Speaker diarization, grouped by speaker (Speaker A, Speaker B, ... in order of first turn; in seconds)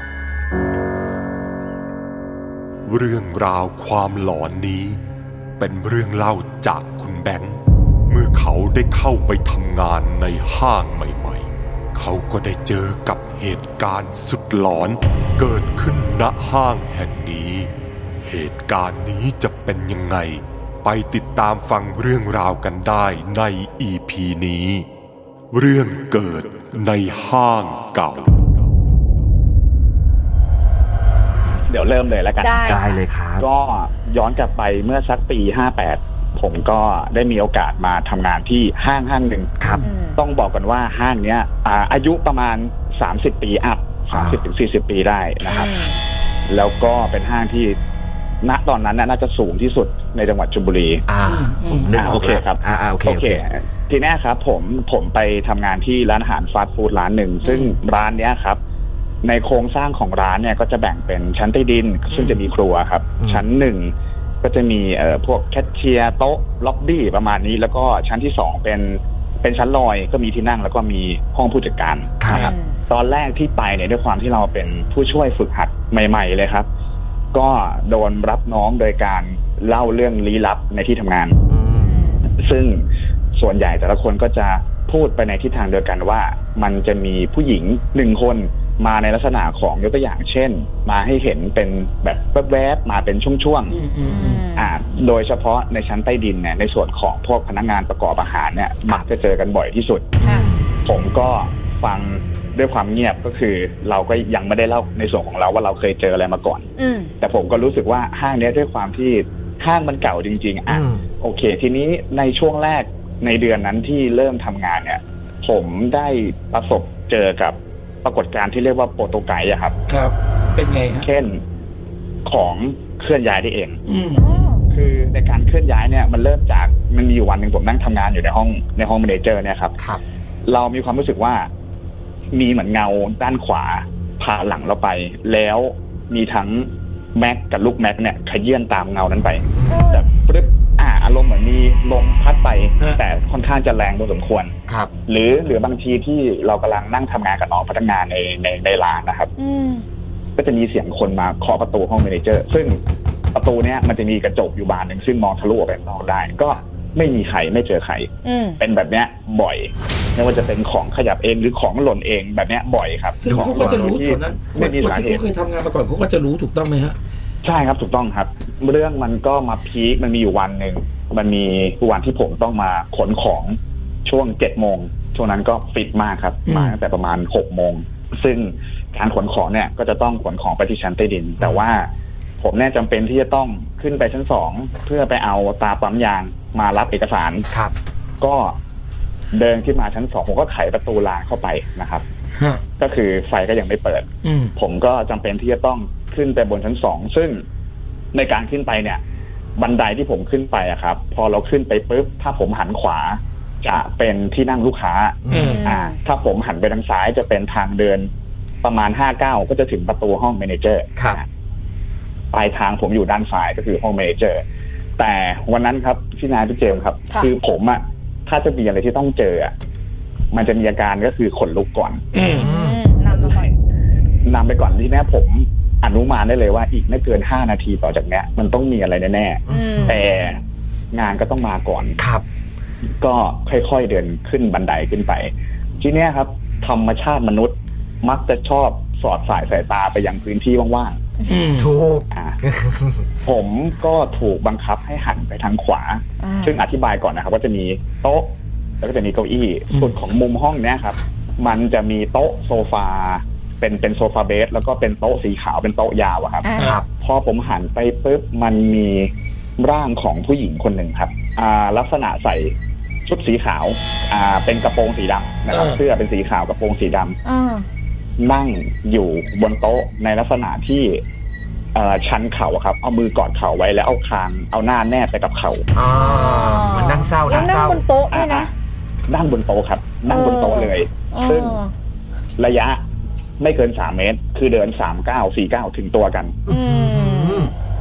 Speaker A: 2.9-5.0, 5.6-7.6, 8.1-17.7, 18.3-24.9, 25.5-28.4
Speaker B: 31.7-39.5, 40.1-45.8, 46.5-47.8, 48.4-51.0, 51.9-58.6, 59.2-76.7, 77.3-81.4, 82.3-93.8, 94.5-100.1, 100.8-106.7, 107.2-119.8, 121.0-121.4, 122.2-123.8, 124.6-129.7, 130.4-131.5, 132.3-144.5, 145.1-149.3, 150.4-152.8, 153.3-165.2, 167.4-187.5, 188.2-188.6, 189.3-192.0, 192.8-197.4, 198.1-199.0, 199.6-208.1, 208.6-211.3, 212.3-214.4, 215.0-219.5, 220.3-222.0, 223.1-223.5, 224.2-230.4, 230.9-232.0, 233.0-241.0, 242.1-242.4, 243.2-262.5, 263.1-267.2, 268.2-271.0, 271.7-275.6, 277.3-277.5, 278.1-278.5, 279.1-281.6, 282.4-282.8, 283.4-286.4
Speaker C: 32.4-32.8, 39.8-40.2, 45.4-46.0, 57.4-57.7, 72.3-72.8, 81.8-82.2, 94.0-94.7, 100.2-100.5, 106.8-107.1, 124.1-124.6, 139.7-140.1, 149.4-149.8, 158.2-158.6, 205.3-205.9, 222.2-223.5, 229.5-230.0, 246.2-246.6, 256.4-256.8, 267.2-267.6, 275.9-278.5, 280.1-281.7, 286.5-287.5
Speaker D: 32.6-33.5, 39.6-39.9, 44.1-44.4, 51.1-53.4, 63.2-63.4, 72.2-72.5, 81.5-82.0, 100.2-100.7, 110.7-111.0, 139.6-139.8, 163.3-164.0, 205.2-205.6, 222.3-222.8, 229.5-229.9, 232.0-232.2, 241.6-243.0, 256.6-256.8, 275.7-277.8, 286.5-287.5
Speaker E: 51.2-52.0, 62.1-62.5, 93.7-94.4, 119.9-121.0, 123.9-124.2, 163.2-167.0, 176.5-176.8, 192.3-192.6, 194.2-194.5, 205.3-205.6, 222.1-222.5, 241.3-241.7, 265.5-265.8